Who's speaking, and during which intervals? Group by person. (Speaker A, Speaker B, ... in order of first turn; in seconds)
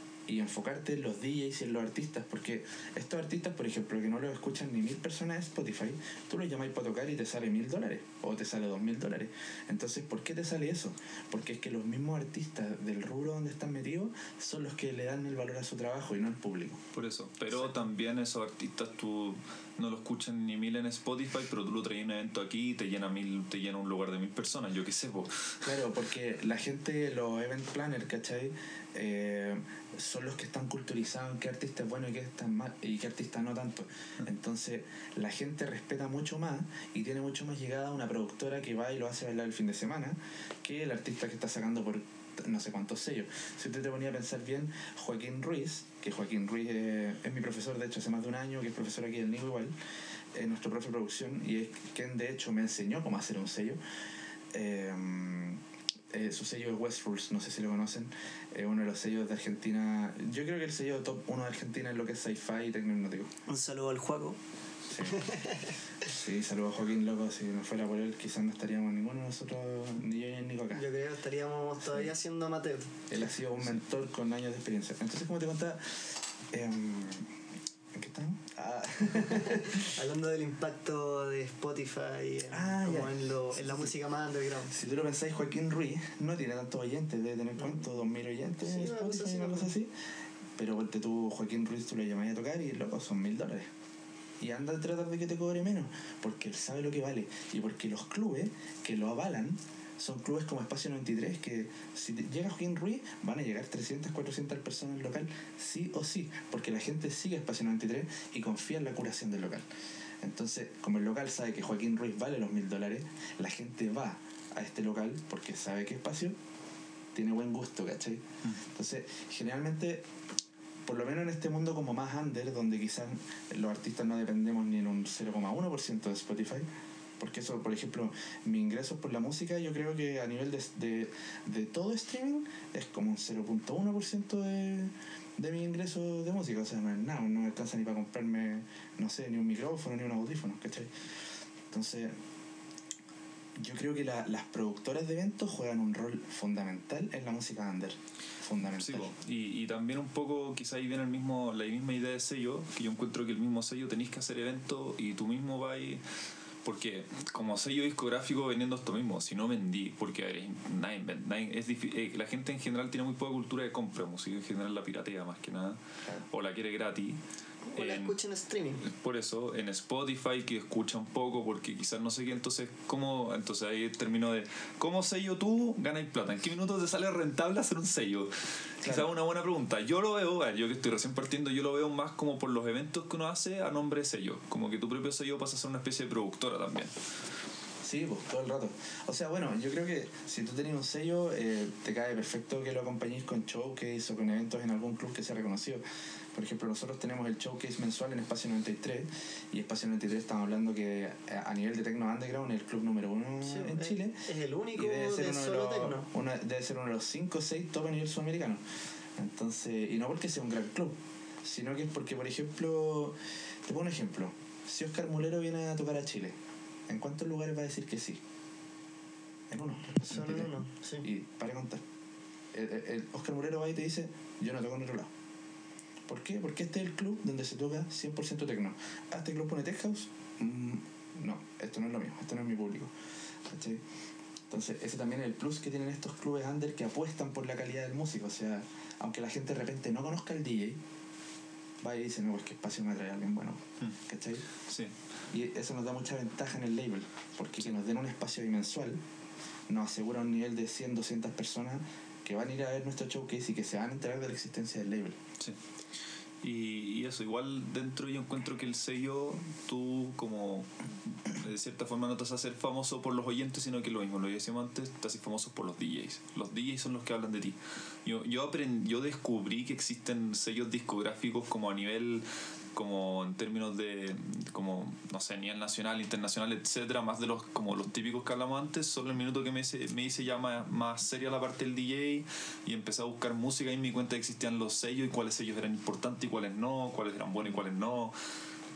Speaker A: 0.3-16.8, 25.6-49.7, 50.3-53.8, 54.5-63.3, 64.9-65.2, 66.0-70.8, 73.1-77.3, 77.9-79.9, 82.5-83.7, 84.7-89.9, 90.6-93.7, 94.4-109.6, 110.2-116.3, 117.1-120.1, 120.8-126.7, 127.2-140.9, 141.7-142.1, 143.6-149.1, 178.8-179.1, 187.8-195.8, 196.3-204.2, 204.7-208.6, 209.2-216.3, 216.9-218.2, 219.5-221.8, 222.5-225.1, 226.1-232.9, 233.4-233.8, 234.5-240.8, 241.8-244.4, 245.3-249.0, 249.7-255.2
Speaker B: 16.9-25.7, 148.7-156.0, 156.6-167.2, 167.8-168.1, 168.8-186.9, 244.7-244.9, 256.4-288.1
Speaker C: 63.5-64.4, 65.0-65.7, 70.7-73.0, 79.1-84.7, 88.6-89.7, 167.7-168.9, 203.4-206.1, 220.0-221.1